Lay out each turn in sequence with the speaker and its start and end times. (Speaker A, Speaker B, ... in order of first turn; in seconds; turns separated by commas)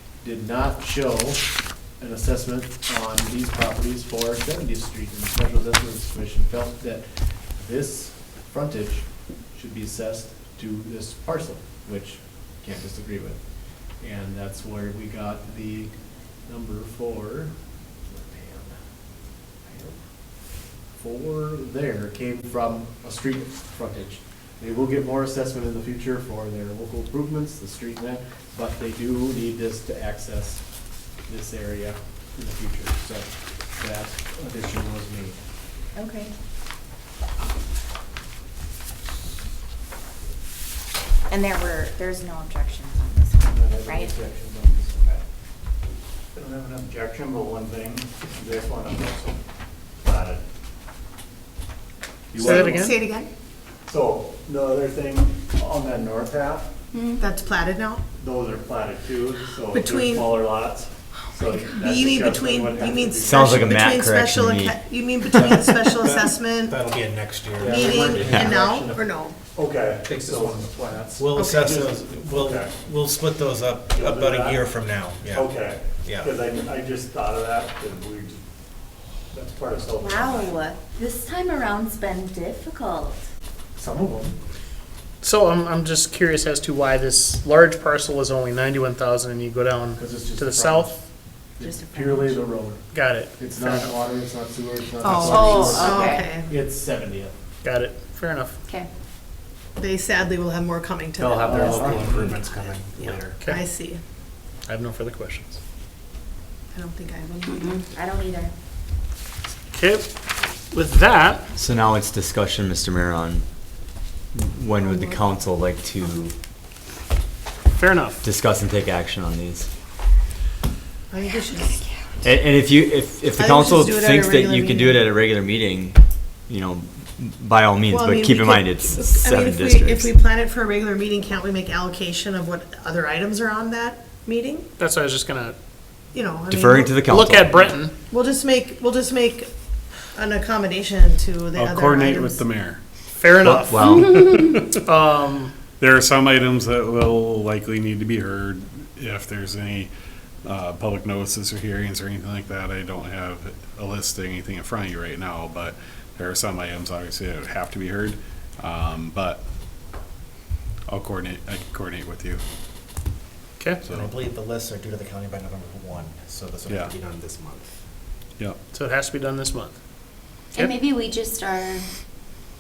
Speaker A: 0.2-13.4, Speaker A: 14.0-15.9, Speaker A: 16.5-18.8, Speaker A: 19.6-20.0, Speaker A: 20.9-30.6, Speaker A: 31.3-35.4, Speaker B: 36.0-36.3, Speaker B: 41.3-44.1, Speaker A: 43.5-45.2, Speaker C: 46.3-49.4, Speaker C: 50.0-50.4, Speaker A: 52.3-52.9, Speaker D: 52.4-53.3, Speaker E: 52.4-53.0, Speaker C: 53.9-56.7, Speaker F: 56.9-57.2, Speaker D: 57.2-58.0, Speaker C: 58.2-63.5, Speaker D: 59.7-60.5, Speaker D: 61.6-66.8, Speaker G: 63.2-64.8, Speaker H: 65.3-68.9, Speaker A: 67.6-68.5, Speaker D: 67.6-69.4, Speaker C: 67.7-68.5, Speaker C: 69.5-71.0, Speaker H: 70.1-75.5, Speaker D: 71.3-71.7, Speaker C: 71.6-72.7, Speaker C: 73.9-74.7, Speaker C: 75.3-78.4, Speaker H: 76.0-76.3, Speaker C: 79.3-80.6, Speaker B: 80.0-83.2, Speaker A: 83.8-84.3, Speaker E: 85.2-91.0, Speaker A: 90.0-91.0, Speaker A: 91.6-97.3, Speaker B: 91.6-92.4, Speaker E: 92.9-93.9, Speaker D: 95.0-96.5, Speaker F: 95.2-96.3, Speaker E: 97.6-98.6, Speaker D: 99.8-104.0, Speaker H: 101.2-103.3, Speaker A: 101.5-102.4, Speaker E: 104.7-105.6, Speaker D: 106.7-107.8, Speaker F: 107.5-107.8, Speaker B: 107.9-108.5, Speaker E: 109.7-110.1, Speaker E: 110.7-111.5, Speaker G: 111.6-113.5, Speaker G: 114.3-116.3, Speaker D: 114.8-115.2, Speaker E: 117.7-118.3, Speaker G: 118.2-119.7, Speaker D: 121.1-121.8, Speaker G: 122.2-126.0, Speaker D: 123.3-125.1, Speaker G: 126.5-130.1, Speaker D: 127.9-134.7, Speaker E: 134.8-135.6, Speaker D: 136.1-137.0, Speaker G: 136.5-137.8, Speaker E: 137.0-137.9, Speaker D: 138.1-139.5, Speaker D: 140.1-142.5, Speaker I: 141.6-142.8, Speaker E: 143.2-144.0, Speaker G: 143.3-144.0, Speaker I: 143.8-144.7, Speaker F: 143.9-144.4, Speaker E: 144.8-145.5, Speaker I: 145.8-149.9, Speaker I: 150.4-159.4, Speaker I: 160.9-162.4, Speaker E: 163.6-163.8, Speaker I: 163.8-164.1, Speaker H: 163.9-167.7, Speaker E: 168.7-169.8, Speaker F: 170.5-171.9